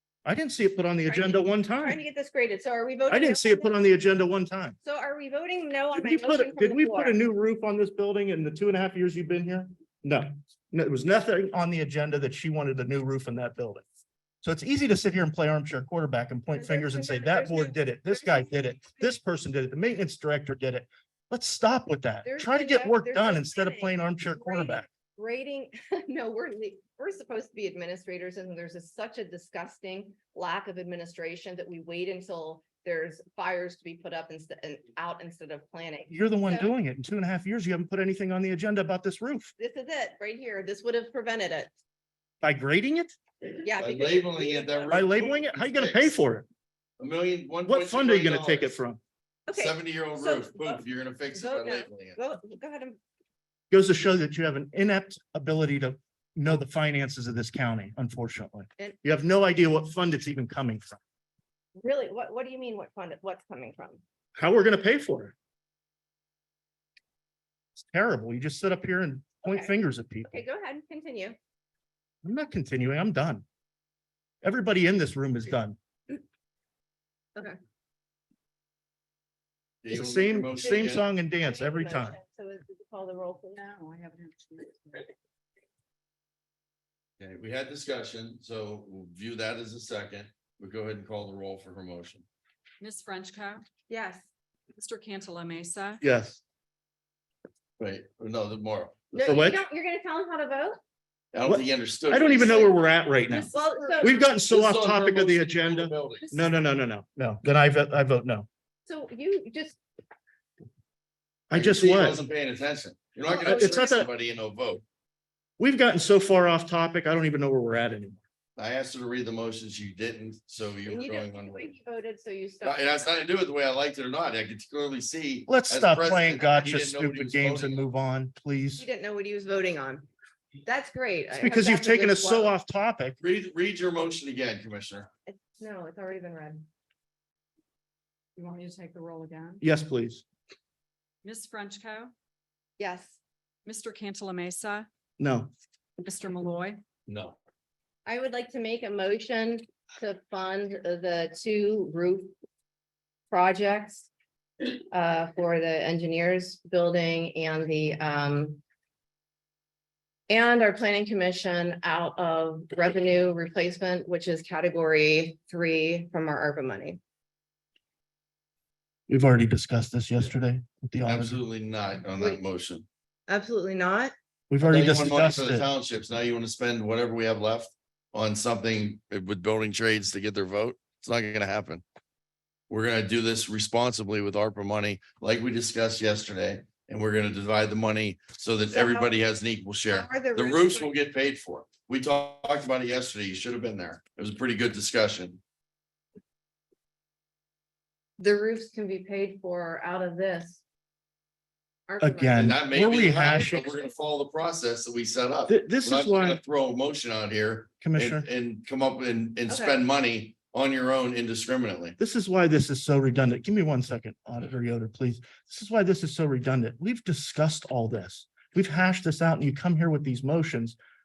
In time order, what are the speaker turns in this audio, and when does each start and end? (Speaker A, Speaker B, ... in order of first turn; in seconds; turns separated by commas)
Speaker A: 0.2-2.0, Speaker B: 1.1-3.8, Speaker A: 3.1-4.8, Speaker B: 4.8-7.2, Speaker A: 6.0-13.9, Speaker A: 14.4-24.9, Speaker B: 16.5-19.1, Speaker B: 22.2-36.7, Speaker A: 36.1-39.5, Speaker B: 39.6-41.7, Speaker A: 42.4-43.2, Speaker B: 43.6-45.0, Speaker C: 43.8-46.1, Speaker A: 44.9-46.5, Speaker C: 47.0-48.7, Speaker A: 47.7-49.0, Speaker B: 49.5-50.8, Speaker C: 49.5-52.2, Speaker B: 51.3-53.0, Speaker A: 53.7-61.0, Speaker B: 61.8-64.0, Speaker A: 64.4-65.3, Speaker A: 67.8-70.4, Speaker B: 69.5-69.7, Speaker B: 70.3-71.4, Speaker A: 72.2-73.5, Speaker A: 74.4-75.8, Speaker C: 79.8-81.0, Speaker A: 79.9-82.2, Speaker B: 80.6-83.6, Speaker D: 83.5-85.1, Speaker C: 87.2-92.2, Speaker D: 92.8-93.7, Speaker B: 93.9-94.3, Speaker D: 94.8-96.0, Speaker A: 96.0-96.4, Speaker C: 97.8-99.4, Speaker B: 99.1-100.8, Speaker A: 99.2-99.6, Speaker C: 101.3-102.8, Speaker A: 101.5-108.5, Speaker D: 103.2-104.2, Speaker B: 103.5-104.3, Speaker C: 104.5-106.3, Speaker B: 108.9-109.8, Speaker A: 111.5-112.2, Speaker C: 111.5-114.8, Speaker B: 113.2-114.1, Speaker A: 113.4-114.1, Speaker A: 115.6-118.2, Speaker C: 118.6-121.7, Speaker B: 120.9-122.9, Speaker C: 122.6-127.8, Speaker A: 125.5-128.8, Speaker B: 128.8-130.1, Speaker B: 130.6-132.5, Speaker A: 131.3-133.2, Speaker C: 133.2-135.1, Speaker B: 135.3-136.7, Speaker D: 138.4-139.6, Speaker A: 139.6-140.2, Speaker D: 141.2-142.1, Speaker B: 142.8-143.2, Speaker D: 143.7-144.9, Speaker A: 145.2-145.5, Speaker D: 146.0-146.8, Speaker C: 147.1-147.4, Speaker B: 148.1-152.3, Speaker B: 153.3-154.1, Speaker B: 154.9-158.6, Speaker B: 160.3-167.0, Speaker A: 169.1-171.4, Speaker C: 171.1-172.9, Speaker B: 173.3-174.1, Speaker A: 174.5-175.7, Speaker C: 174.6-181.8, Speaker C: 182.7-195.4, Speaker B: 188.7-189.2, Speaker B: 189.9-190.9, Speaker B: 198.2-200.6, Speaker B: 201.9-202.6, Speaker A: 202.0-203.7, Speaker C: 202.4-212.0, Speaker A: 205.5-206.4, Speaker A: 207.8-208.3, Speaker B: 209.5-209.8, Speaker A: 212.0-220.8